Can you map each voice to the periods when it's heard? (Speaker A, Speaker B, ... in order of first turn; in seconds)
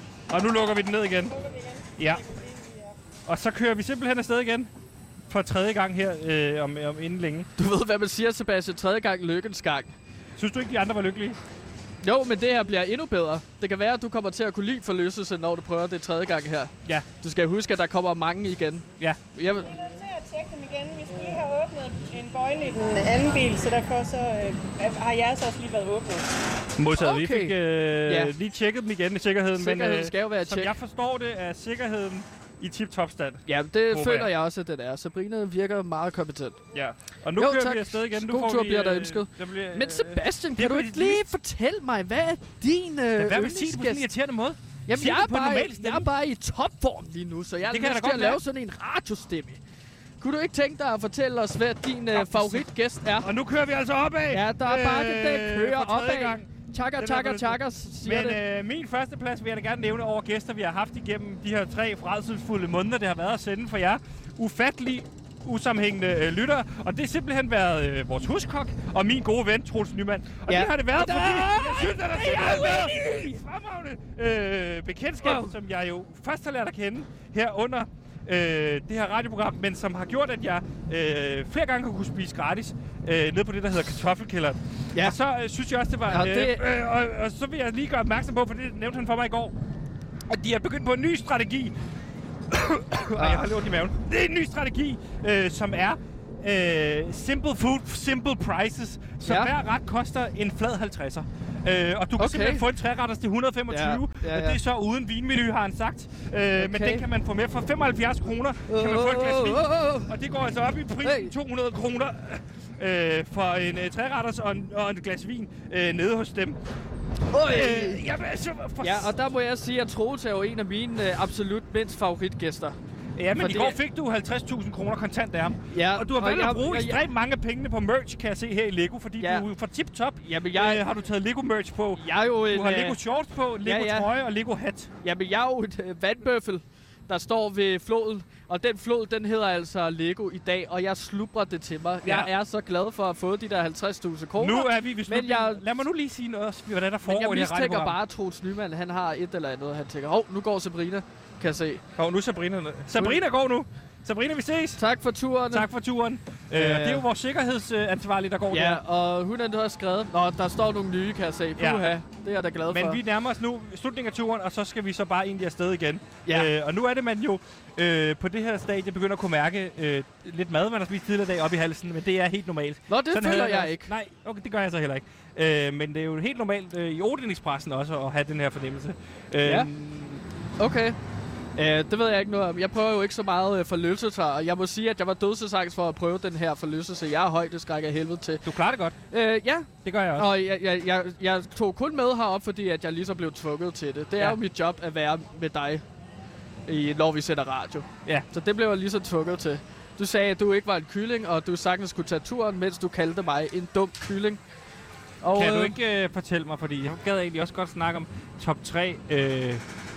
Speaker A: 0.3-1.3, 3.2-4.7, 5.3-7.5, 10.4-11.4, 26.8-34.3, 36.7-41.3, 43.1-46.1, 47.6-48.4, 52.1-52.6, 53.2-89.5, 90.3-91.7, 92.5-116.6, 117.4-119.1, 123.2-134.9, 142.0-142.3, 144.4-148.0, 152.0-154.8, 155.5-158.8, 161.6-161.9, 162.7-180.2, 188.4-189.0, 189.8-190.3, 205.3-209.6
Speaker B: 1.3-3.0, 19.5-26.3
Speaker C: 7.6-9.9, 12.0-19.7, 26.9-28.3, 29.5-30.7, 33.5-36.6, 37.4-44.1, 44.9-49.6, 50.2-53.3, 54.3-58.4, 70.5-73.3, 75.2-75.5, 86.1-86.6, 93.1-93.5, 99.2-99.5, 102.2-102.6, 103.7-104.6, 106.5-107.0, 108.7-110.1, 111.0-111.3, 117.3-118.0, 118.8-122.8, 123.4-123.8, 125.7-127.0, 129.2-129.4, 130.2-130.8, 131.9-133.0, 133.6-134.1, 135.0-145.6, 147.0-151.8, 152.9-153.2, 154.8-155.7, 156.5-157.0, 158.5-163.0, 166.2-166.5, 172.9-173.9, 179.4-179.7, 180.6-181.0, 181.6-188.4, 189.1-195.8, 196.7-204.4, 205.2-205.7